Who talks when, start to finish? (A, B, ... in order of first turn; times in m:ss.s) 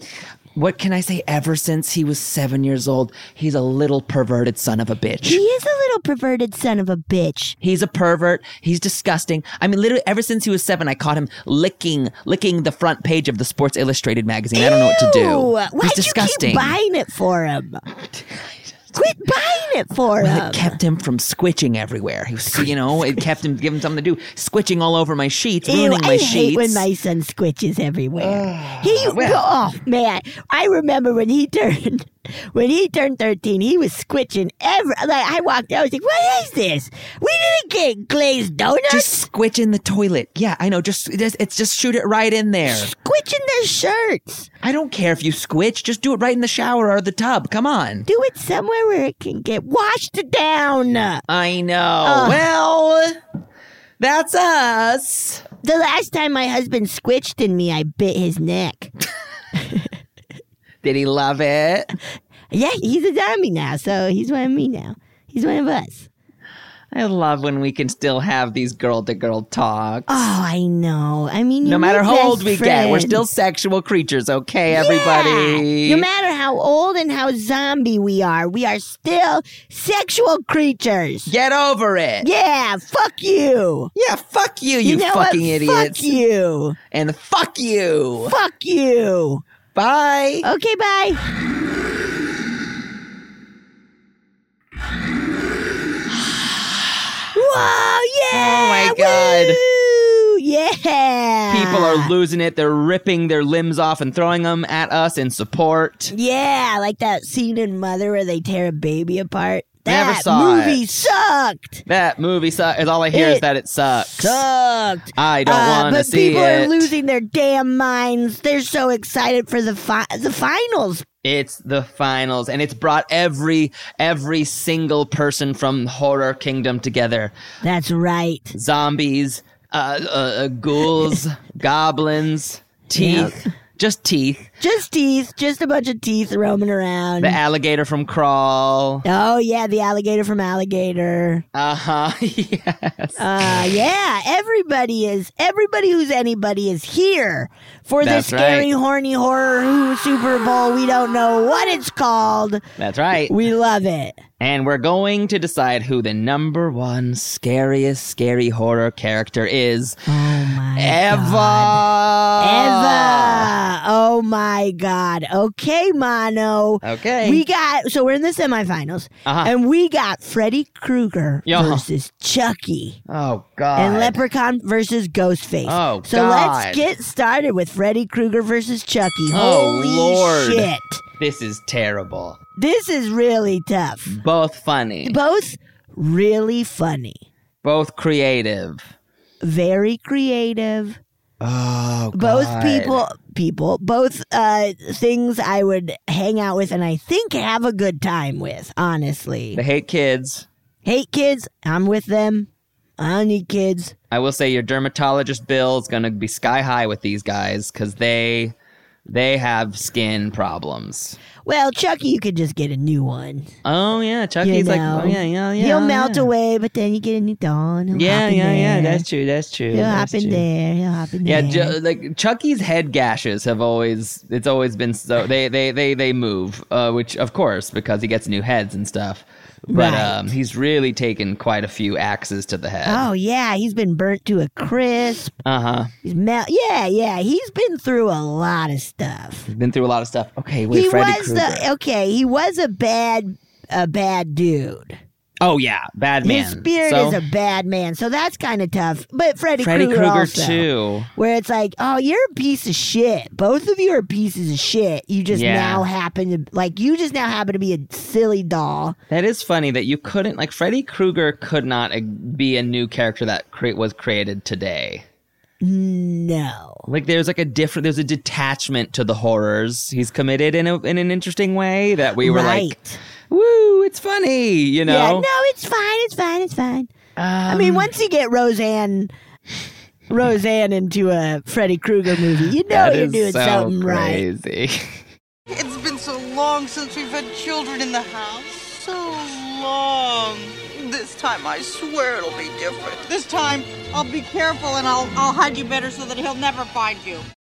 0:00.5-0:05.4 A
0:05.2-0:07.6 B
0:07.6-0:16.8 A
0:14.5-0:17.8 B
0:18.1-0:18.7 A
0:18.9-0:20.8 B
0:20.2-0:26.8 A
0:22.5-0:23.2 B
0:25.6-0:39.3 B
0:28.2-0:29.5 A
0:38.9-0:42.9 A
0:42.6-0:44.5 B
0:44.6-0:48.0 A
0:48.1-0:51.2 B
0:51.3-0:53.2 A
0:52.0-0:52.4 B
0:54.0-0:55.4 A
0:55.6-0:58.9 B
1:00.8-1:01.9 A
1:02.5-1:06.1 B
1:06.9-1:10.3 A
1:10.1-1:13.2 B
1:11.6-1:16.0 A
1:14.7-1:21.3 B
1:21.3-1:22.3 A
1:22.2-1:23.9 B
1:23.9-1:26.1 A
1:24.8-1:26.8 B
1:26.9-1:28.3 A
1:28.3-1:29.4 B
1:29.7-1:30.4 A
1:30.4-1:31.2 B
1:36.2-1:37.2 A
1:37.3-1:42.1 B
1:38.3-1:39.6 A
1:41.5-1:46.1 A
1:46.1-1:51.8 B
1:49.8-1:51.1 A
1:51.8-1:54.4 A
1:53.1-1:53.4 B
1:54.1-2:01.0 B
1:55.1-1:56.9 A
2:01.2-2:07.3 A
2:07.6-2:08.5 B
2:08.5-2:14.5 A
2:12.9-2:13.5 B
2:14.6-2:17.4 B
2:17.2-2:19.0 A
2:19.0-2:21.4 B
2:21.5-2:23.8 A
2:23.2-2:32.6 B
2:28.0-2:28.7 A
2:32.8-2:33.3 A
2:33.3-2:34.2 B
2:34.4-2:43.5 A
2:40.1-2:41.8 B
2:42.4-2:53.0 B
2:46.8-2:47.4 A
2:49.2-2:49.5 A
2:51.4-2:51.8 A
2:53.1-2:54.2 A
2:53.8-3:01.0 B
2:55.6-2:56.8 A
2:59.3-3:02.4 A
3:02.6-3:04.2 B
3:04.1-3:05.2 A
3:05.0-3:07.2 B
3:07.6-3:08.9 A
3:09.4-3:11.0 B
3:11.4-3:13.0 A
3:12.1-3:19.6 B
3:19.5-3:20.5 A
3:20.8-3:23.9 B
3:24.1-3:28.5 A
3:29.1-3:31.2 A
3:31.4-3:33.5 B
3:33.6-3:36.3 A
3:34.4-3:39.0 B
3:37.9-3:40.4 A
3:39.7-3:41.8 B
3:41.2-3:53.0 A
3:49.7-3:50.2 B
3:52.8-3:55.3 B
3:55.4-3:55.9 A
3:56.0-3:59.5 B
3:59.5-4:01.7 A
4:00.7-4:05.0 B
4:05.4-4:07.2 A
4:06.2-4:19.0 B
4:09.6-4:11.1 A
4:15.3-4:15.8 A
4:19.1-4:25.0 A
4:25.6-4:26.9 B
4:26.9-4:32.8 A
4:32.2-4:33.0 B
4:33.3-4:35.3 A
4:34.8-4:36.9 B
4:37.2-4:37.9 A
4:37.5-4:39.1 B
4:40.1-4:44.2 B
4:42.6-4:45.0 A
4:45.5-4:57.2 C